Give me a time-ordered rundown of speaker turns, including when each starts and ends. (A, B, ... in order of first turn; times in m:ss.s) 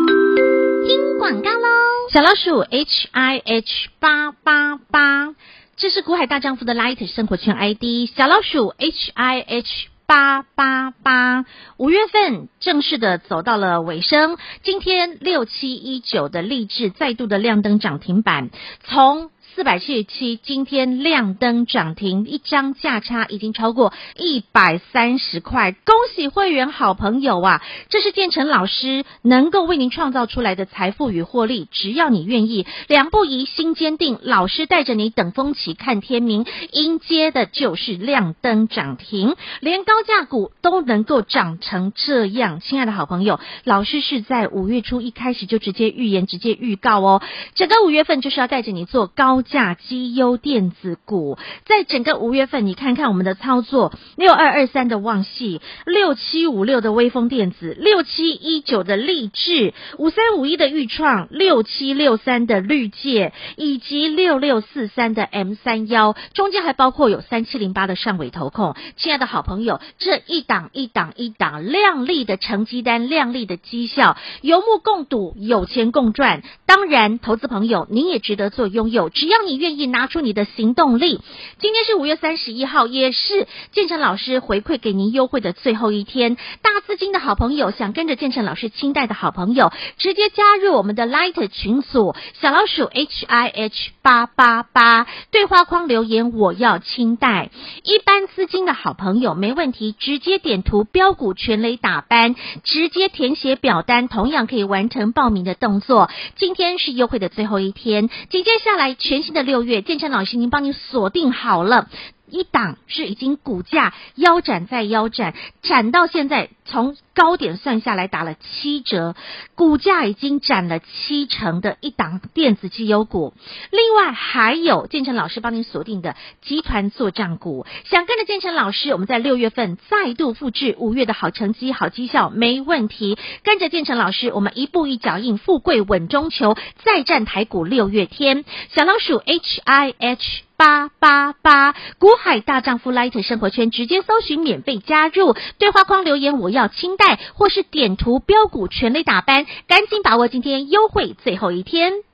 0:00.8-2:32.0 A